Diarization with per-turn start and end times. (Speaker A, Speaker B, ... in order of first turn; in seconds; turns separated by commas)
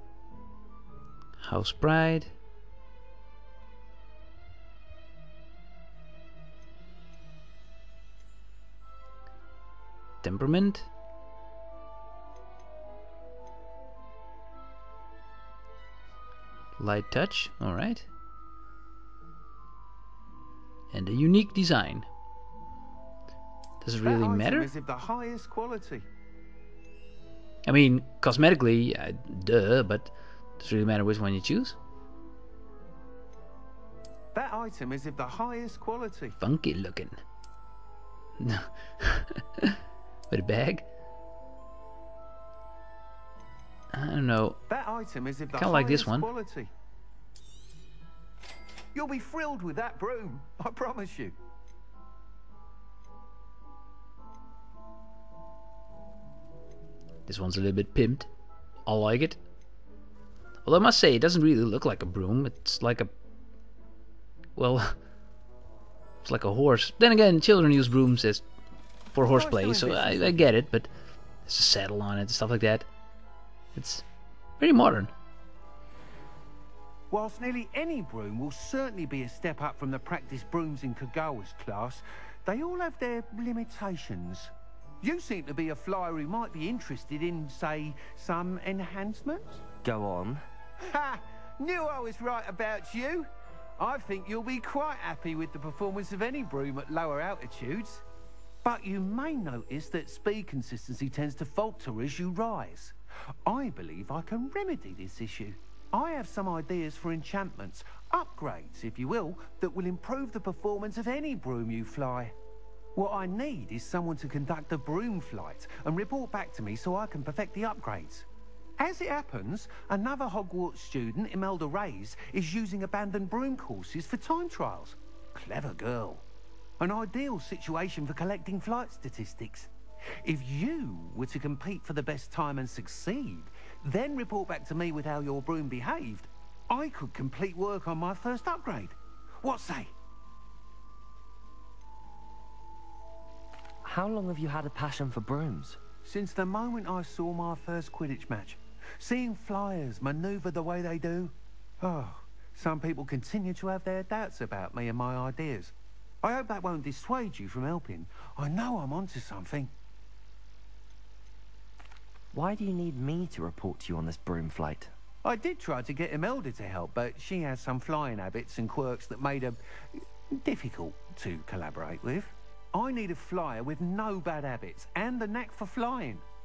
Speaker A: 1.4-2.3, Speaker A: 10.2-10.9, Speaker A: 16.8-18.1, Speaker A: 20.9-22.1, Speaker A: 23.8-24.7, Speaker B: 24.0-26.1, Speaker A: 27.6-31.8, Speaker B: 34.3-36.4, Speaker A: 36.4-37.2, Speaker A: 38.4-39.8, Speaker A: 40.3-40.9, Speaker A: 43.9-44.6, Speaker B: 44.7-46.7, Speaker A: 45.5-46.3, Speaker B: 48.9-51.4, Speaker A: 57.3-58.3, Speaker A: 58.9-59.4, Speaker A: 60.6-63.1, Speaker A: 64.5-64.9, Speaker A: 66.2-68.4, Speaker A: 69.1-70.9, Speaker B: 69.2-70.4, Speaker A: 71.5-72.9, Speaker A: 73.7-74.0, Speaker A: 74.6-75.1, Speaker B: 77.1-84.5, Speaker B: 85.0-89.6, Speaker C: 89.8-90.4, Speaker B: 90.8-98.0, Speaker B: 98.6-112.3, Speaker B: 113.0-118.3, Speaker B: 118.8-126.2, Speaker B: 126.8-129.7, Speaker B: 130.2-139.9, Speaker C: 143.8-145.8, Speaker B: 146.0-159.7, Speaker C: 162.3-164.9, Speaker B: 165.2-176.2